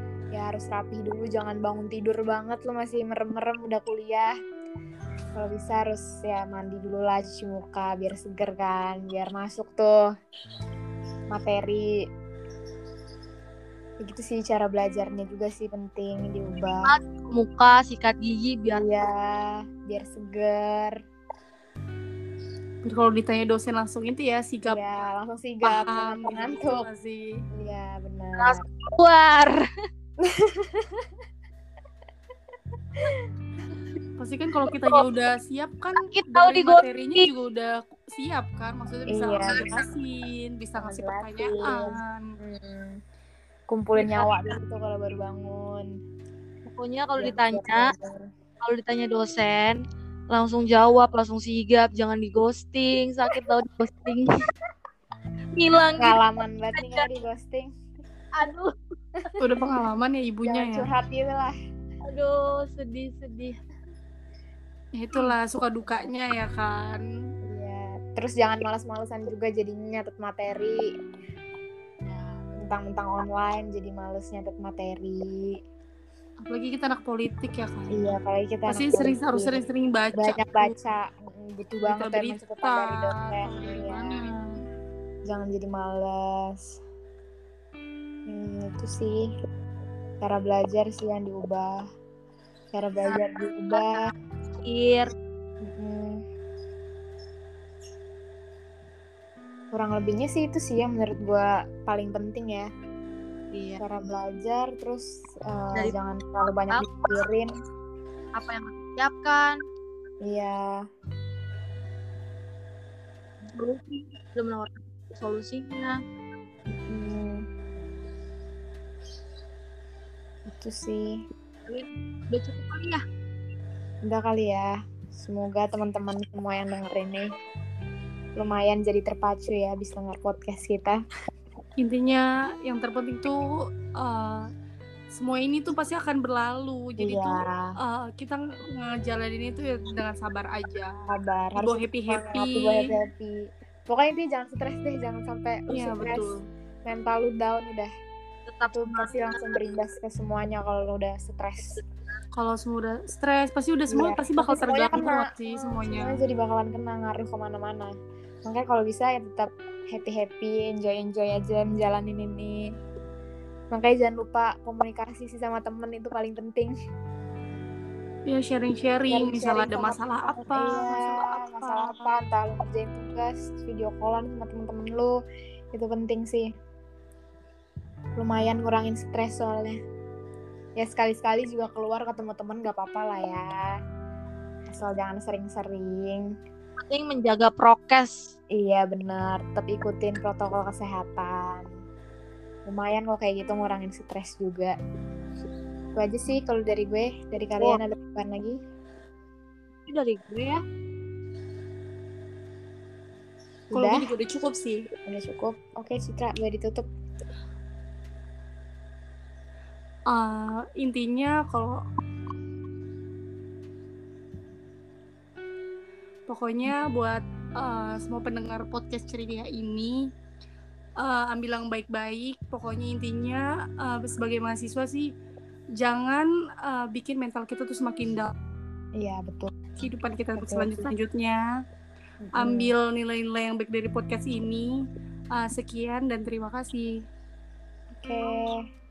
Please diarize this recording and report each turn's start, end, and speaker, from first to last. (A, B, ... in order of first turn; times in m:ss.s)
0:00.3-0:04.3 A
0:05.4-0:10.0 A
0:11.3-0:11.9 A
0:14.0-0:16.9 A
0:16.9-0:18.8 B
0:18.7-0:21.0 A
0:22.8-0:24.8 C
0:24.6-0:26.9 A
0:25.6-0:27.4 C
0:27.5-0:28.6 A
0:28.4-0:29.6 B
0:30.2-0:31.1 A
0:33.0-0:33.2 A
0:34.2-0:42.3 C
0:36.0-0:37.3 B
0:39.1-0:39.8 A
0:39.5-0:39.9 B
0:40.8-0:43.0 A
0:43.7-0:45.9 A
0:44.0-0:44.4 B
0:46.7-0:47.9 B
0:47.2-0:48.3 A
0:48.6-0:49.8 B
0:50.3-0:54.2 B
0:55.6-0:56.2 B
0:56.0-0:57.7 A
0:58.4-0:58.7 B
0:59.4-1:00.9 C
1:00.4-1:01.6 A
1:02.1-1:03.6 B
1:05.0-1:07.0 C
1:07.4-1:10.8 A
1:12.1-1:12.4 B
1:12.6-1:15.6 A
1:16.5-1:18.1 C
1:17.9-1:24.2 A
1:18.7-1:20.7 C
1:21.8-1:24.6 C
1:25.3-1:26.8 A
1:28.3-1:29.3 A
1:30.2-1:31.8 A
1:32.7-1:34.0 A
1:34.6-1:35.1 B
1:35.6-1:36.2 A
1:39.7-1:42.7 A
1:43.5-1:43.8 B
1:43.8-1:47.5 A
1:48.4-1:49.6 B
1:50.2-1:50.8 A
1:53.6-1:56.0 B
1:56.7-1:57.5 A
2:00.5-2:01.2 A
2:01.7-2:03.0 B
2:04.0-2:07.3 A
2:08.4-2:11.0 A
2:11.8-2:14.5 C
2:15.1-2:21.0 C
2:17.0-2:17.8 A
2:21.1-2:26.3 A
2:21.6-2:22.9 C
2:25.7-2:26.5 C
2:26.8-2:27.9 A
2:28.5-2:29.6 B
2:28.7-2:31.8 A
2:32.4-2:36.2 C
2:33.9-2:37.9 A
2:38.4-2:42.6 A
2:43.7-2:46.7 A
2:48.3-2:52.2 C
2:49.1-2:55.2 A
2:55.7-2:56.5 A
2:58.2-2:59.8 A
3:00.8-3:03.6 A
3:04.7-3:06.3 A
3:06.8-3:08.3 B
3:08.5-3:11.7 A
3:12.7-3:14.8 A
3:16.0-3:18.6 A
3:19.9-3:20.6 B
3:23.7-3:24.1 A
3:23.7-3:24.8 C
3:25.1-3:26.9 A
3:30.1-3:31.8 C
3:36.3-3:40.1 C
3:41.0-3:45.1 C
3:45.8-3:48.3 C
3:49.0-3:49.6 A
3:49.8-3:51.5 C
3:50.4-3:50.9 A
3:52.2-3:52.7 A
3:52.4-3:57.0 C
3:58.0-3:58.6 A